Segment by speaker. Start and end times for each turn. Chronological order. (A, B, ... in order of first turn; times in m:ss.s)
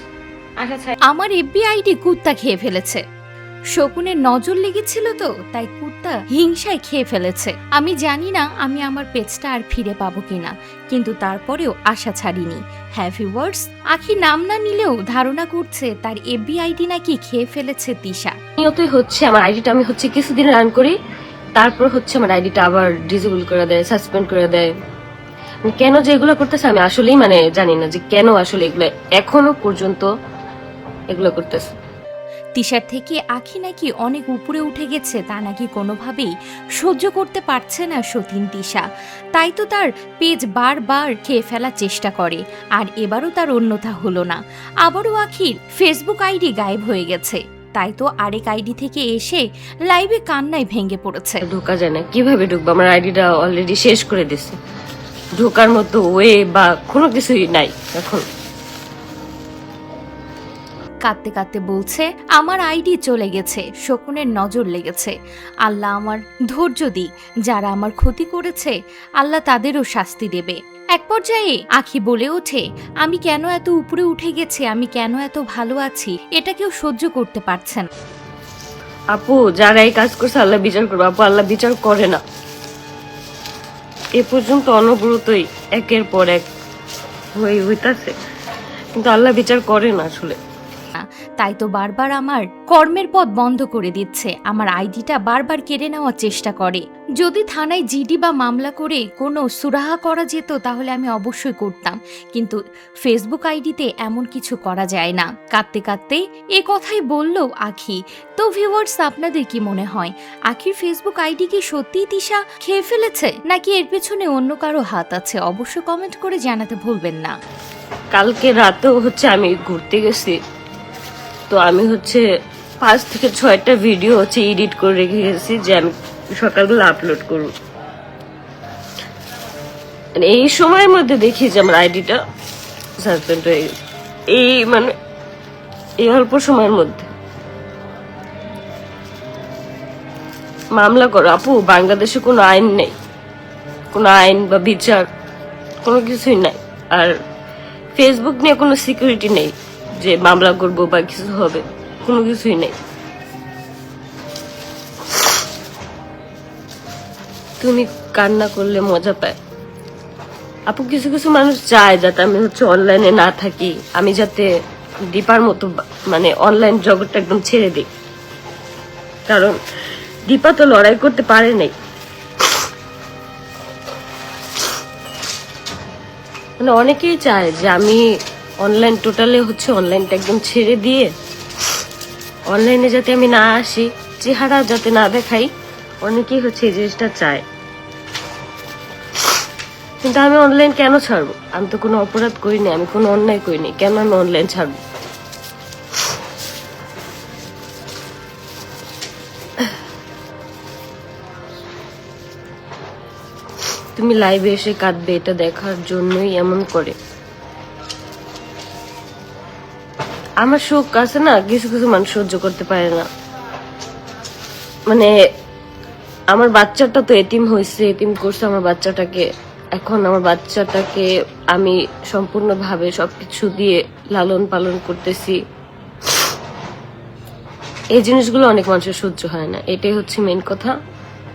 0:00.6-0:01.0 A
0:01.1-0:03.0 B
0:03.8-0:18.3 B
0:18.6-0:20.9 A
0:21.6-0:24.7 A
0:25.6-0:30.1 A
0:31.1-0:31.7 A
0:32.6-0:38.8 B
0:39.4-0:51.4 B
0:51.5-0:54.6 A
0:55.4-0:58.2 A
1:01.1-1:05.1 B
1:05.6-1:17.8 B
1:19.1-1:22.2 A
1:24.2-1:26.5 A
1:27.4-1:28.1 A
1:29.0-1:30.4 A
1:31.4-1:57.3 B
1:58.1-2:00.4 A
2:01.5-2:02.2 A
2:02.8-2:07.5 A
2:10.2-2:12.2 A
2:13.0-2:13.7 A
2:14.3-2:14.9 A
2:16.0-2:17.1 A
2:20.8-2:22.9 A
2:23.9-2:25.0 A
2:25.8-2:27.1 A
2:27.9-2:32.8 A
2:37.6-2:39.4 A
2:40.7-2:44.5 A
2:45.1-2:47.9 A
2:49.3-2:49.6 A
2:50.3-2:51.7 A
2:56.6-2:58.0 A
2:58.6-3:01.1 A
3:02.5-3:05.5 A
3:06.0-3:07.4 A
3:10.0-3:14.7 A
3:24.0-3:26.9 A
3:30.4-3:33.0 A
3:36.3-3:39.2 A
3:39.8-3:45.4 A
3:47.9-3:50.7 A